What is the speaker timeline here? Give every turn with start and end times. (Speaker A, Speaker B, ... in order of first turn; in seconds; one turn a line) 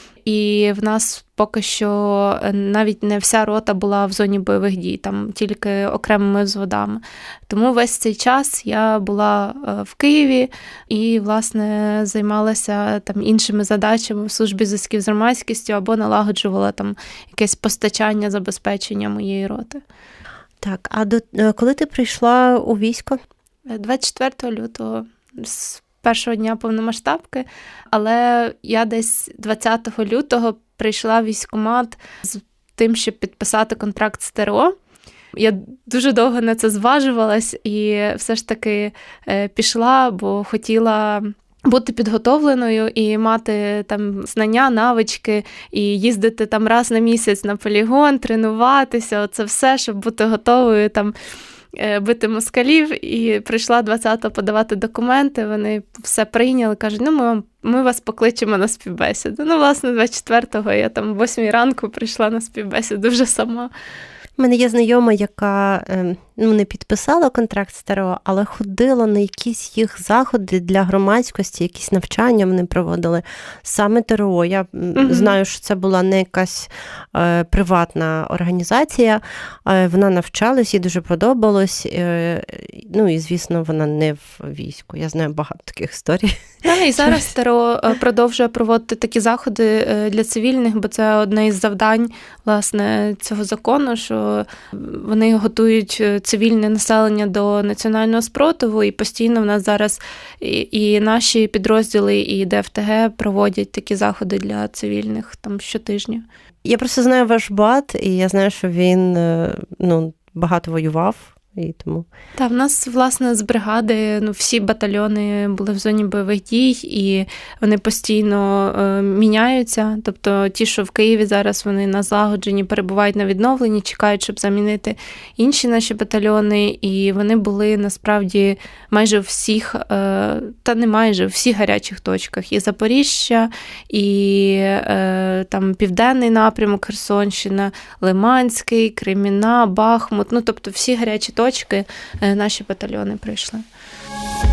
Speaker A: 0.2-19.8
Speaker B: 20.6-23.2
Speaker A: 23.7-34.8
Speaker A: 35.3-51.1
Speaker A: 51.8-63.7
Speaker B: 64.4-86.5
Speaker A: 75.0-75.3
Speaker A: 86.6-106.2
Speaker B: 106.6-112.1
Speaker A: 112.4-143.6